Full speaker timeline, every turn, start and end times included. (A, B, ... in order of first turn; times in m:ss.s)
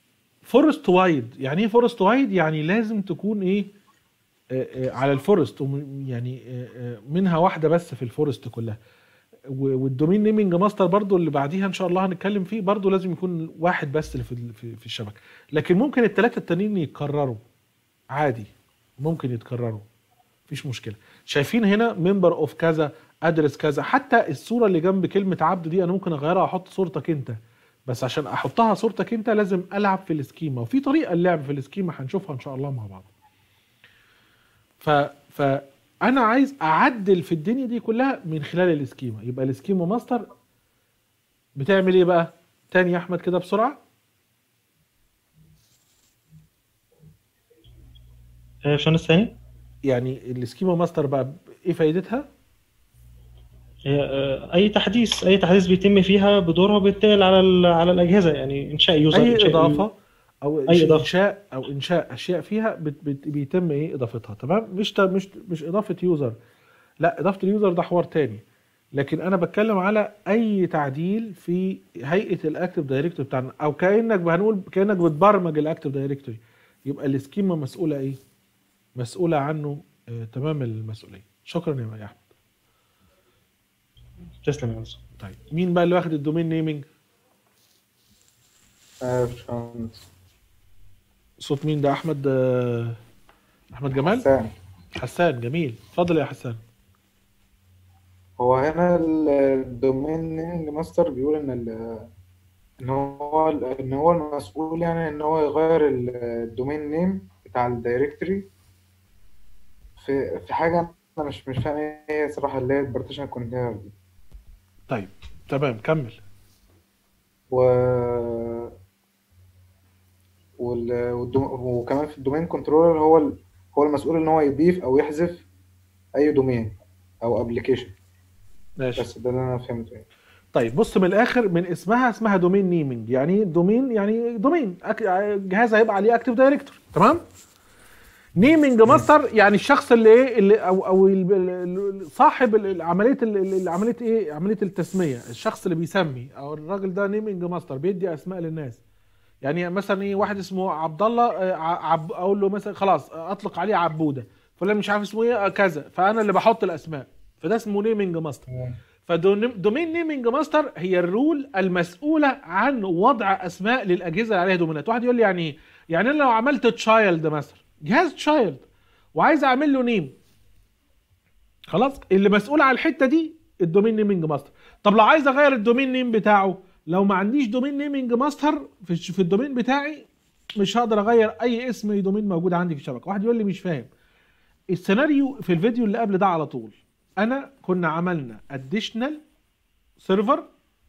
0:00.4-0:03.7 A
0:04.5-0:08.8 A
0:09.5-0:17.4 A
0:18.1-0:19.8 A
0:20.5-0:33.1 A
0:34.8-0:40.3 A
0:41.6-0:43.8 A
0:48.7-0:49.3 B
0:49.8-0:52.3 A
0:53.9-0:59.9 B
0:59.1-1:06.4 A
1:00.7-1:01.1 B
1:07.0-1:18.2 A
1:19.0-1:22.2 A
1:24.4-1:25.0 B
1:25.2-1:26.8 A
1:29.0-1:30.0 C
1:31.4-1:33.0 A
1:33.7-1:34.2 A
1:34.1-1:34.5 C
1:35.0-1:36.6 A
1:38.4-1:42.1 C
1:42.8-1:48.5 C
1:50.0-1:53.9 C
1:54.9-1:56.2 A
1:57.5-1:58.7 C
2:00.6-2:05.5 C
2:06.1-2:07.9 C
2:08.8-2:09.1 A
2:09.0-2:10.0 C
2:10.5-2:17.2 A
2:18.4-2:28.8 A
2:29.4-2:38.4 A
2:39.0-2:48.6 A
2:49.2-2:50.2 A
2:51.7-3:03.9 A
3:04.7-3:09.2 A
3:10.0-3:10.5 A